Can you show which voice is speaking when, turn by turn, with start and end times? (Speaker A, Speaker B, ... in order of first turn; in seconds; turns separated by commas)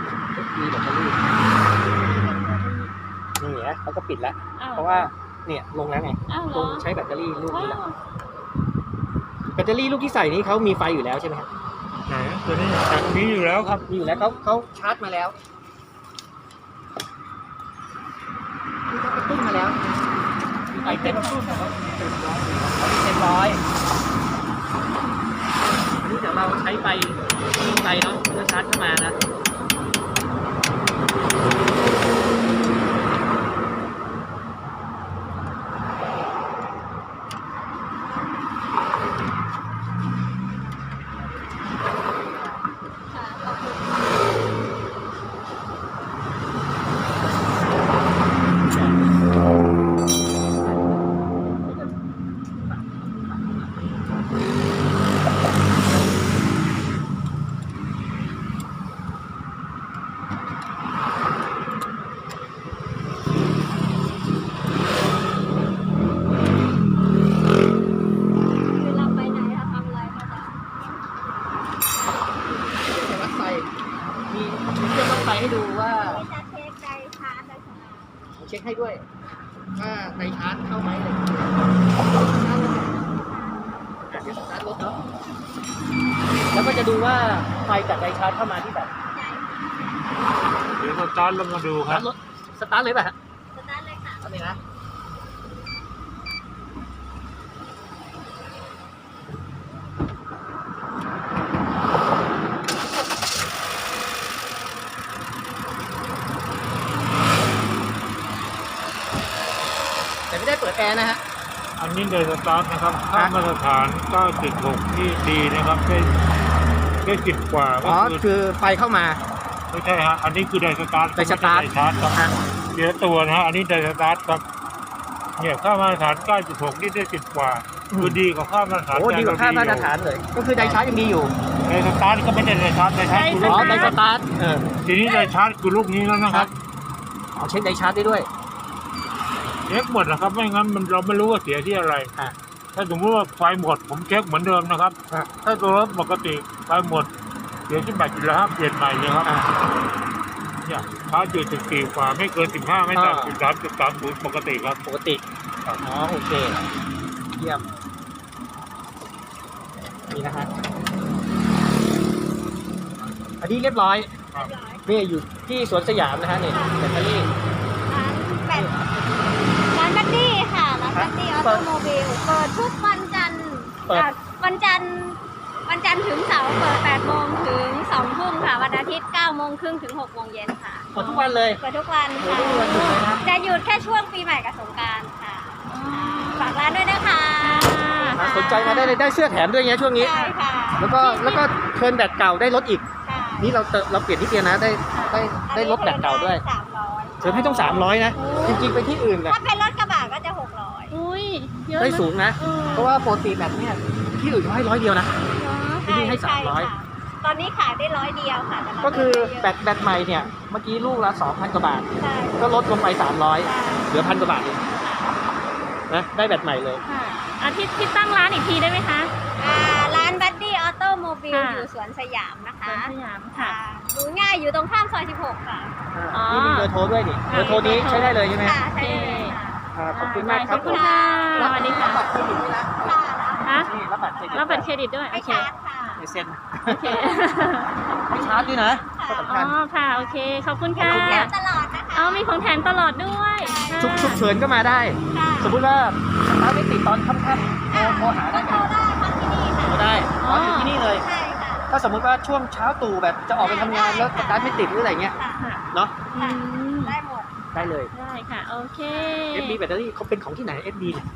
Speaker A: 0.3-1.2, Speaker B: 1.9-2.9, Speaker A: 3.4-7.8, Speaker B: 4.6-5.1, Speaker B: 6.3-6.9, Speaker B: 7.5-7.9, Speaker A: 9.5-11.5, Speaker C: 12.1-13.9, Speaker A: 13.5-15.3, Speaker B: 14.0-14.5, Speaker A: 18.9-19.9, Speaker B: 20.7-21.9, Speaker A: 20.7-23.6, Speaker A: 26.0-29.1, Speaker A: 41.9-42.6, Speaker D: 43.1-43.8, Speaker A: 50.6-51.0, Speaker A: 51.5-51.9, Speaker A: 52.6-53.7, Speaker D: 68.7-71.0, Speaker A: 72.5-73.7, Speaker A: 74.3-76.2, Speaker D: 76.0-78.1, Speaker A: 78.3-79.0, Speaker A: 79.8-82.9, Speaker D: 82.8-83.7, Speaker A: 84.1-85.0, Speaker A: 86.5-88.9, Speaker D: 89.1-89.7, Speaker C: 90.8-92.1, Speaker A: 91.8-93.1, Speaker D: 93.5-94.2, Speaker A: 94.2-94.6, Speaker A: 110.3-111.2, Speaker C: 111.8-116.1, Speaker C: 117.0-118.2, Speaker A: 117.8-119.2, Speaker C: 119.7-122.2, Speaker A: 121.2-122.3, Speaker C: 122.7-124.4, Speaker C: 125.4-129.9, Speaker A: 127.9-128.2, Speaker A: 128.9-131.3, Speaker C: 130.6-130.8, Speaker C: 131.6-134.0, Speaker B: 133.1-134.0, Speaker A: 133.4-134.7, Speaker C: 134.8-136.5, Speaker D: 135.1-135.3, Speaker A: 137.3-138.3, Speaker C: 139.7-142.1, Speaker C: 142.7-147.1, Speaker C: 147.7-149.3, Speaker A: 149.2-149.5, Speaker C: 150.6-154.8, Speaker A: 152.9-153.4, Speaker A: 154.8-155.2, Speaker A: 155.8-156.6, Speaker A: 157.3-157.7, Speaker A: 160.1-160.5, Speaker A: 163.4-164.2, Speaker D: 164.3-164.8, Speaker A: 164.8-167.3, Speaker D: 166.5-166.9, Speaker D: 167.9-168.7, Speaker A: 168.5-168.8, Speaker D: 169.7-180.9, Speaker A: 170.9-171.7, Speaker B: 180.9-181.4, Speaker A: 180.9-181.6, Speaker D: 181.6-188.9, Speaker A: 182.2-183.2, Speaker B: 182.6-183.0, Speaker B: 185.7-186.7, Speaker B: 187.4-189.0, Speaker A: 188.1-192.8, Speaker D: 189.9-191.3, Speaker B: 191.0-191.4, Speaker D: 193.0-193.6, Speaker A: 193.4-196.4, Speaker D: 195.4-197.4, Speaker A: 197.2-199.4, Speaker B: 197.3-198.7, Speaker D: 198.4-198.7, Speaker D: 199.2-200.9, Speaker B: 200.9-203.0, Speaker A: 201.8-205.2, Speaker D: 202.5-203.0, Speaker B: 205.3-205.8, Speaker D: 205.8-209.6, Speaker A: 205.8-206.7, Speaker A: 208.8-214.6, Speaker D: 212.0-212.4, Speaker D: 213.4-213.9, Speaker D: 214.7-215.2, Speaker A: 215.9-216.8, Speaker B: 216.8-219.1, Speaker D: 219.4-225.7, Speaker B: 221.3-221.7, Speaker B: 222.6-223.6, Speaker A: 225.9-228.6, Speaker B: 226.1-226.7, Speaker B: 227.3-228.2, Speaker D: 227.3-229.6, Speaker B: 228.7-229.4, Speaker A: 229.7-234.7, Speaker B: 229.9-232.1, Speaker D: 230.4-236.0, Speaker B: 233.4-233.7, Speaker B: 234.3-236.0, Speaker A: 235.2-237.2, Speaker B: 236.6-237.7, Speaker D: 237.9-240.2, Speaker A: 238.1-239.6, Speaker B: 239.2-241.3, Speaker A: 240.8-241.3, Speaker D: 240.8-242.3, Speaker B: 241.9-244.2, Speaker D: 243.4-243.9, Speaker A: 243.8-248.7, Speaker D: 245.1-245.5, Speaker D: 247.7-249.9, Speaker A: 249.6-251.0, Speaker B: 250.2-250.8, Speaker D: 250.9-251.7, Speaker A: 251.7-255.2, Speaker D: 253.4-255.4, Speaker B: 255.3-256.9, Speaker A: 255.7-256.0, Speaker D: 256.1-257.3, Speaker A: 257.5-257.9, Speaker B: 257.9-259.6, Speaker D: 258.9-259.3, Speaker A: 259.3-261.1